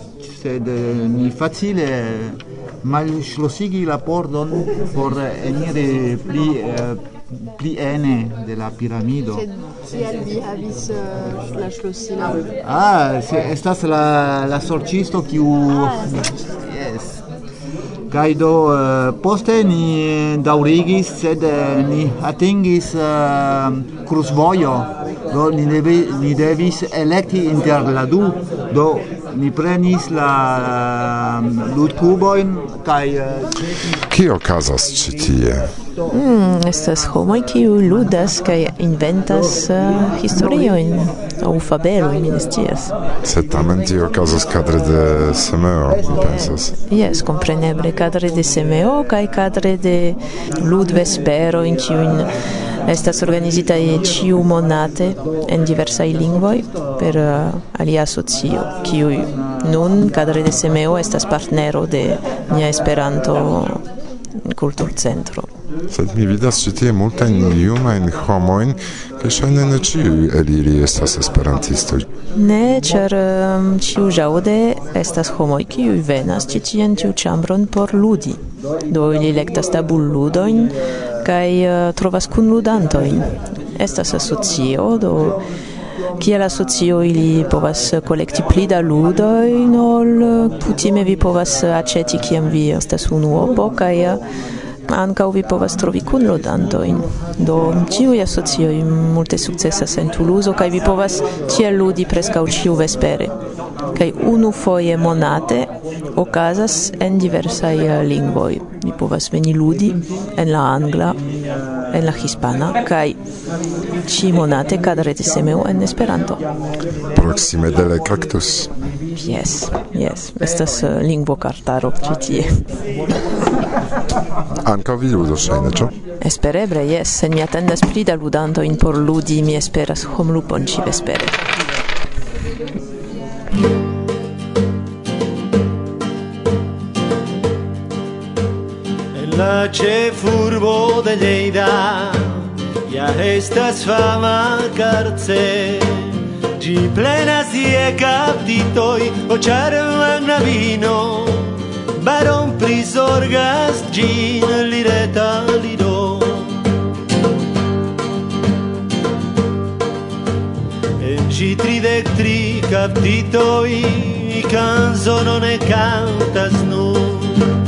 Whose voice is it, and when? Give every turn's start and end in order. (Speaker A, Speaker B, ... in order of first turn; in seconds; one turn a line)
Speaker A: 0.2-9.4
Speaker B: 9.4-12.4
Speaker A: 12.7-17.2
Speaker A: 18.1-33.6
Speaker C: 34.1-35.7
Speaker D: 36.1-42.9
Speaker C: 43.2-46.7
Speaker D: 46.1-52.3
Speaker D: 52.8-65.5
Speaker C: 65.9-72.1
Speaker D: 72.3-85.5
Speaker D: 86.2-94.2
Speaker D: 94.9-103.3
Speaker D: 103.9-111.2
Speaker D: 111.9-113.2
Speaker D: 114.0-116.4
Speaker C: 117.1-118.7
Speaker D: 119.2-122.7
Speaker C: 124.6-125.9
Speaker D: 126.2-131.4
Speaker E: 139.1-156.6
Speaker E: 161.0-167.5